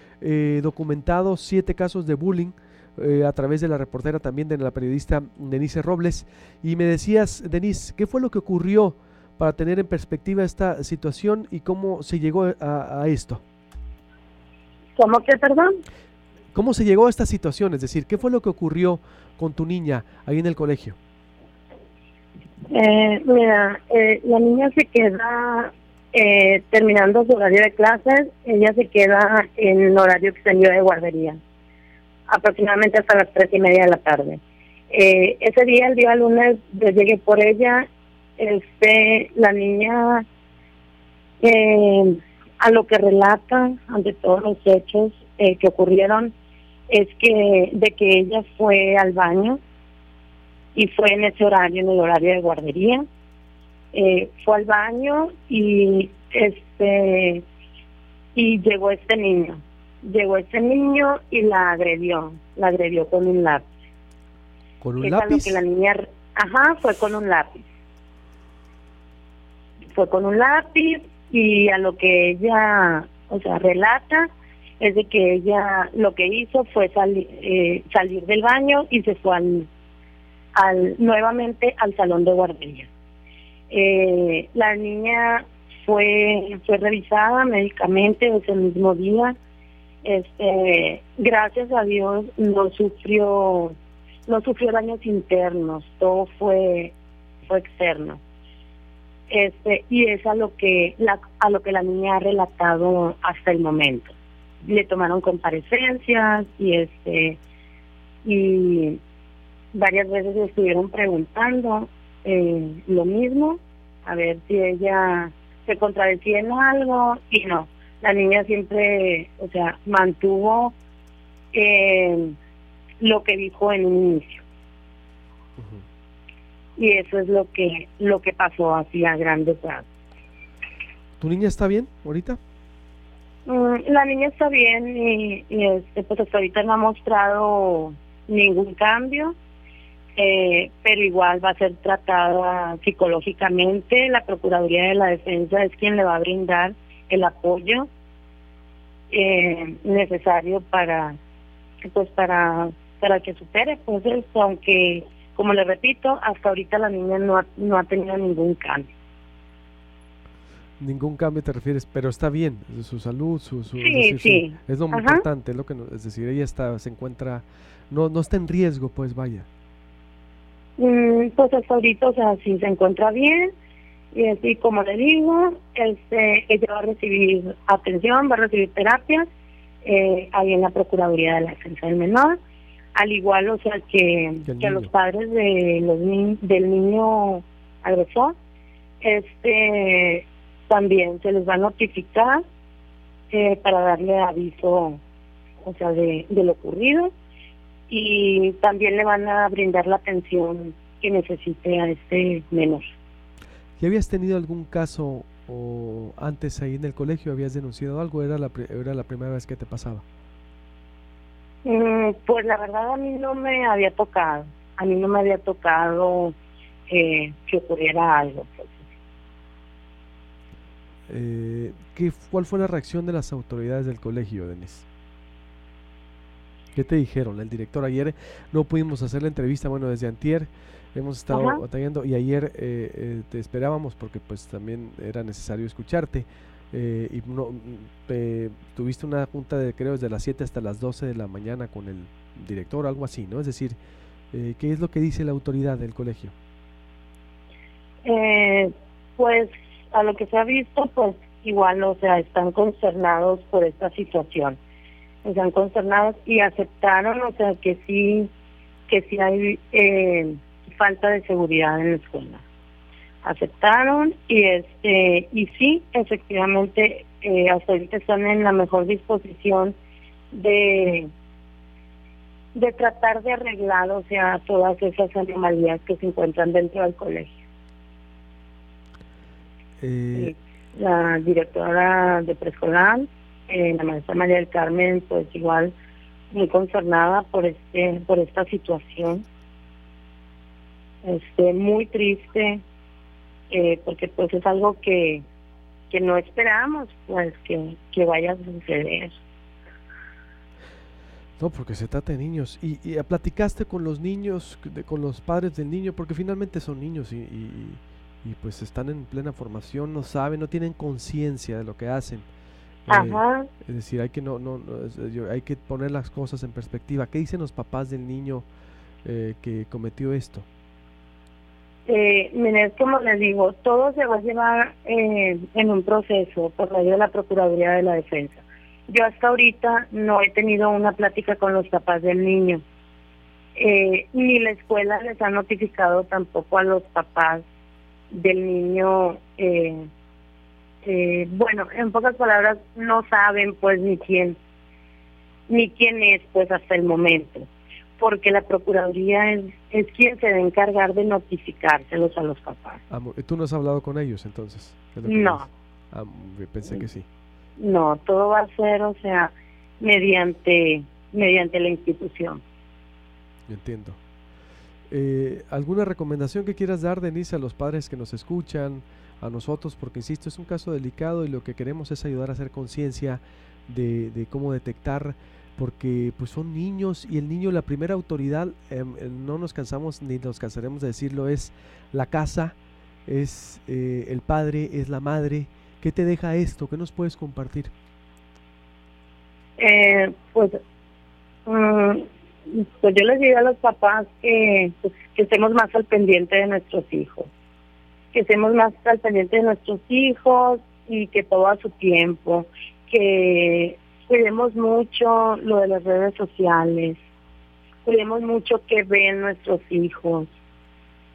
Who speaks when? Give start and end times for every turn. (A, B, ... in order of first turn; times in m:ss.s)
0:00.2-0:13.4 A
0:15.0-0:15.7 B
0:16.5-0:21.0 A
0:22.7-0:31.4 B
0:32.3-0:37.9 B
0:38.4-0:40.2 B
0:41.4-0:46.3 B
0:46.9-0:49.6 B
0:50.8-0:53.0 B
0:53.9-0:57.4 B
0:58.4-1:03.7 B
1:04.8-1:05.6 A
1:05.0-1:07.7 B
1:09.9-1:19.7 B
1:20.6-1:22.9 B
1:23.7-1:29.4 B
1:30.0-1:33.8 B
1:34.3-1:37.0 B
1:37.5-1:38.2 B
1:39.3-1:47.4 B
1:48.2-1:49.0 B
1:49.7-2:00.8 B
2:01.5-2:02.4 B
2:03.0-2:04.4 B
2:05.6-2:05.8 A
2:06.8-2:09.9 B
2:11.2-2:12.4 A
2:13.5-2:19.4 B
2:20.2-2:27.9 B
2:29.1-2:31.2 B
2:31.8-2:38.9 B
2:40.8-2:49.5 A
2:43.8-2:45.3 B
2:50.8-2:53.5 B
2:54.1-2:59.3 B
2:59.8-3:02.4 B
3:03.0-3:08.4 B
3:04.5-3:04.9 A
3:09.0-3:12.4 B
3:13.3-3:15.0 B
3:15.6-3:17.1 B
3:17.9-3:22.8 B
3:23.8-3:30.0 A
3:31.6-3:36.4 B
3:36.9-3:38.9 B
3:41.1-3:44.9 A
3:46.8-4:03.8 A
3:51.3-3:51.6 B
4:04.3-4:06.3 A
4:08.0-4:14.6 B
4:15.2-4:18.3 B
4:18.9-4:22.4 B
4:23.2-4:29.8 B
4:30.3-4:31.1 B
4:32.6-4:37.3 B
4:39.8-4:40.3 A
4:40.2-4:45.7 B
4:46.3-4:49.3 B
4:51.0-4:52.6 B
4:53.5-4:55.2 B
4:55.9-4:59.2 B
5:01.4-5:12.3 A
5:12.9-5:18.5 A
5:12.9-5:13.5 B
5:19.0-5:20.5 A
5:21.9-5:32.6 B
5:33.6-5:37.4 B
5:38.1-5:39.9 B
5:40.8-5:44.4 B
5:45.5-5:52.8 B
5:52.9-5:57.1 A
5:55.0-5:55.5 B
5:57.6-6:02.4 B
6:03.5-6:04.0 A
6:04.9-6:22.6 A
6:23.1-6:27.7 A
6:29.6-6:30.6 B
6:31.5-6:37.3 B
6:38.1-6:47.0 B
6:47.8-6:50.3 B